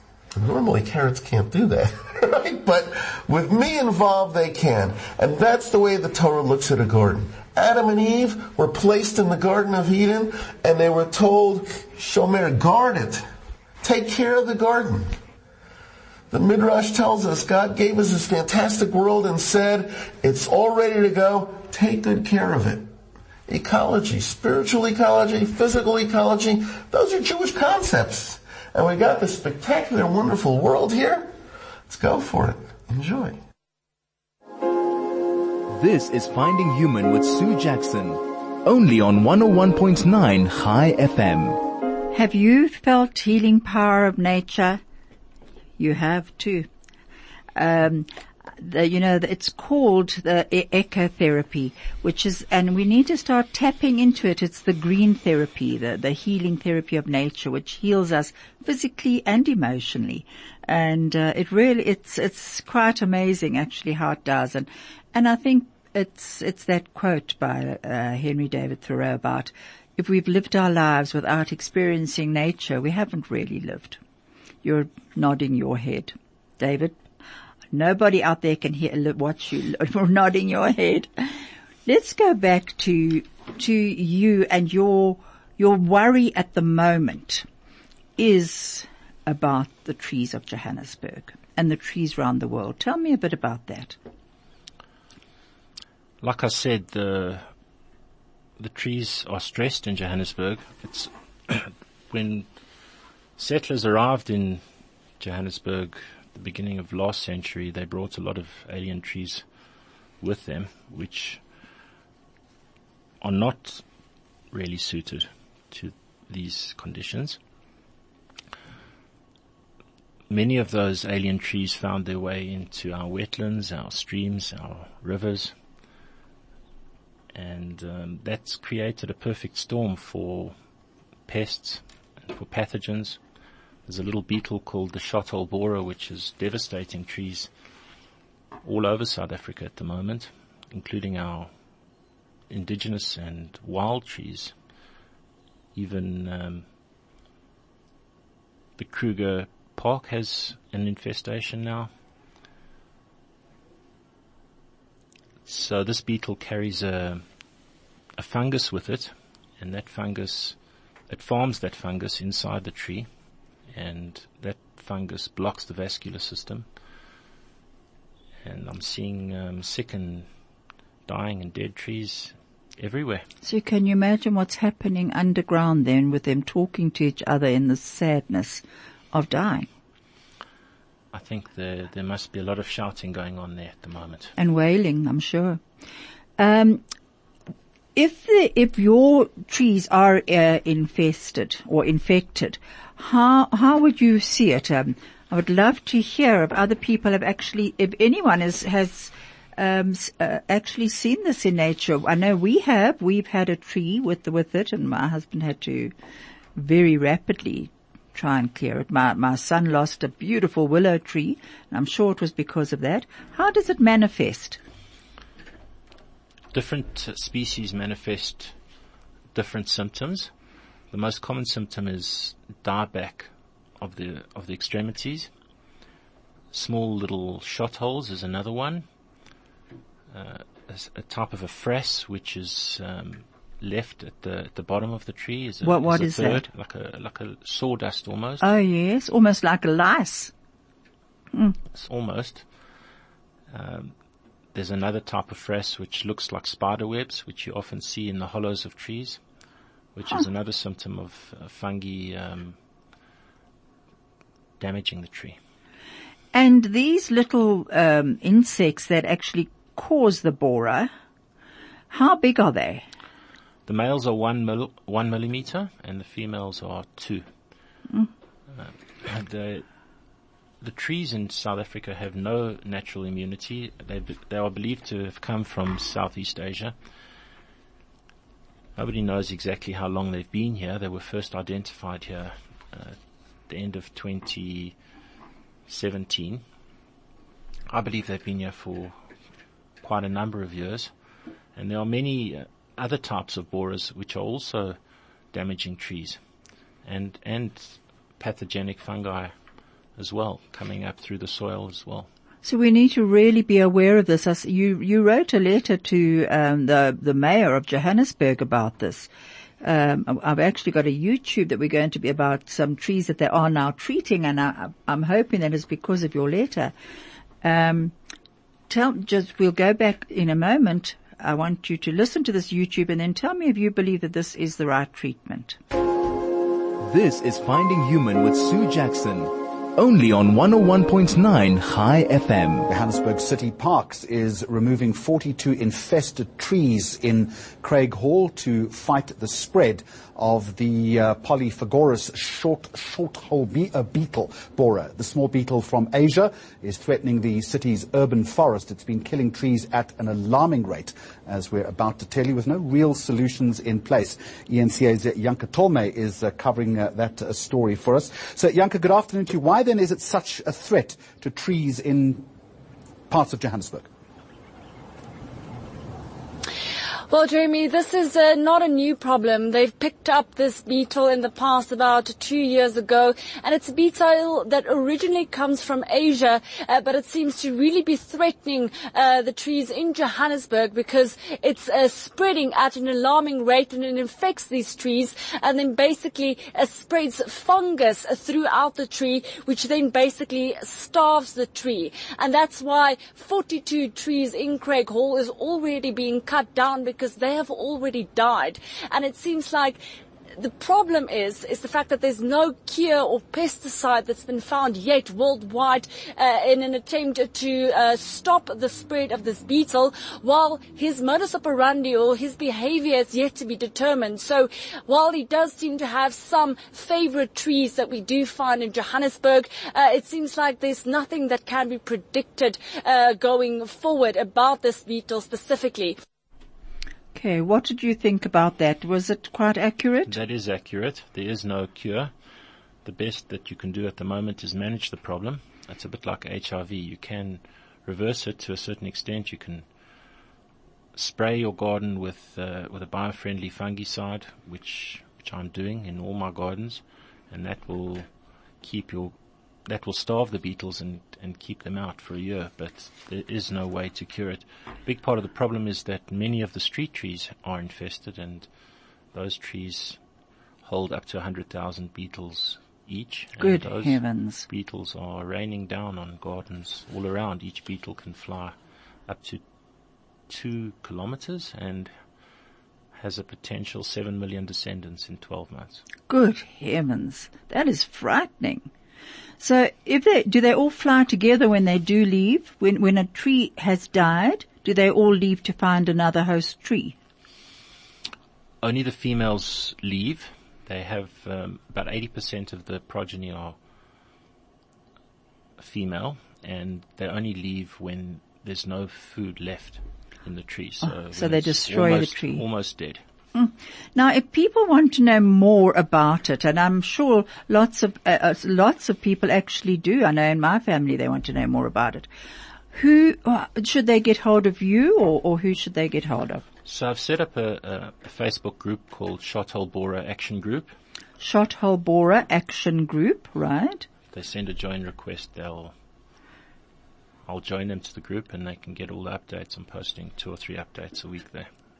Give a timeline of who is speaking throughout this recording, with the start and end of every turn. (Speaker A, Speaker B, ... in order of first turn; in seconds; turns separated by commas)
Speaker A: 0.3-13.2, Speaker A: 13.8-15.1, Speaker A: 16.3-22.9, Speaker A: 23.5-31.3, Speaker A: 31.9-33.4, Speaker B: 35.7-41.6, Speaker C: 42.1-44.8, Speaker C: 45.8-46.7, Speaker C: 47.5-48.1, Speaker C: 48.6-74.0, Speaker C: 74.6-77.0, Speaker C: 77.7-87.5, Speaker C: 88.2-94.0, Speaker D: 96.2-97.5, Speaker D: 98.6-102.5, Speaker D: 103.4-104.6, Speaker D: 105.2-109.4, Speaker D: 110.2-111.4, Speaker D: 113.2-113.8, Speaker D: 114.5-117.4, Speaker D: 120.3-125.5, Speaker D: 127.3-130.5, Speaker D: 131.3-133.2, Speaker D: 133.8-137.5, Speaker D: 138.6-141.5, Speaker D: 142.5-144.5, Speaker D: 145.7-146.7, Speaker D: 148.8-151.9, Speaker D: 155.4-157.2, Speaker D: 158.2-160.6, Speaker D: 161.1-163.1, Speaker D: 163.7-166.7, Speaker D: 168.4-170.3, Speaker D: 171.1-173.2, Speaker C: 173.4-179.7, Speaker D: 181.1-184.3, Speaker C: 184.4-185.6, Speaker C: 186.4-186.8, Speaker C: 187.9-205.9, Speaker C: 206.6-214.6, Speaker D: 216.5-218.5, Speaker D: 219.3-220.3, Speaker D: 220.9-225.3, Speaker D: 226.5-228.8, Speaker D: 230.1-238.4, Speaker C: 235.6-236.4, Speaker C: 238.4-240.3, Speaker D: 241.7-242.4, Speaker D: 243.5-243.9, Speaker D: 244.5-249.2, Speaker D: 249.9-252.6, Speaker D: 254.6-255.4, Speaker C: 256.3-260.9, Speaker C: 261.9-262.8, Speaker D: 263.6-267.2, Speaker D: 268.5-269.6, Speaker D: 270.6-276.7, Speaker D: 278.8-284.8, Speaker D: 285.7-286.4, Speaker D: 287.7-288.9, Speaker D: 289.8-290.9, Speaker D: 291.5-294.8, Speaker D: 295.3-296.2, Speaker D: 296.8-299.3, Speaker D: 299.9-302.1, Speaker C: 302.4-309.1, Speaker C: 309.6-316.7, Speaker C: 317.4-317.9, Speaker C: 318.7-325.6, Speaker B: 326.8-332.7, Speaker E: 332.7-362.3, Speaker E: 363.1-363.9, Speaker F: 367.1-399.8, Speaker F: 400.4-426.0, Speaker C: 427.1-430.1, Speaker D: 430.1-432.1, Speaker D: 432.8-439.6, Speaker D: 440.9-448.1, Speaker D: 448.6-449.1, Speaker D: 449.6-458.5, Speaker D: 459.1-460.0, Speaker D: 460.6-468.5, Speaker C: 463.4-464.4, Speaker D: 469.1-469.4, Speaker D: 470.3-471.9, Speaker D: 472.9-475.8, Speaker C: 476.1-478.7, Speaker C: 479.4-486.9, Speaker D: 488.6-493.6, Speaker D: 495.6-503.0, Speaker C: 500.8-502.4, Speaker C: 503.3-512.1, Speaker C: 512.7-516.4, Speaker D: 516.6-520.7, Speaker C: 521.2-523.9, Speaker D: 524.1-525.7, Speaker D: 527.2-531.5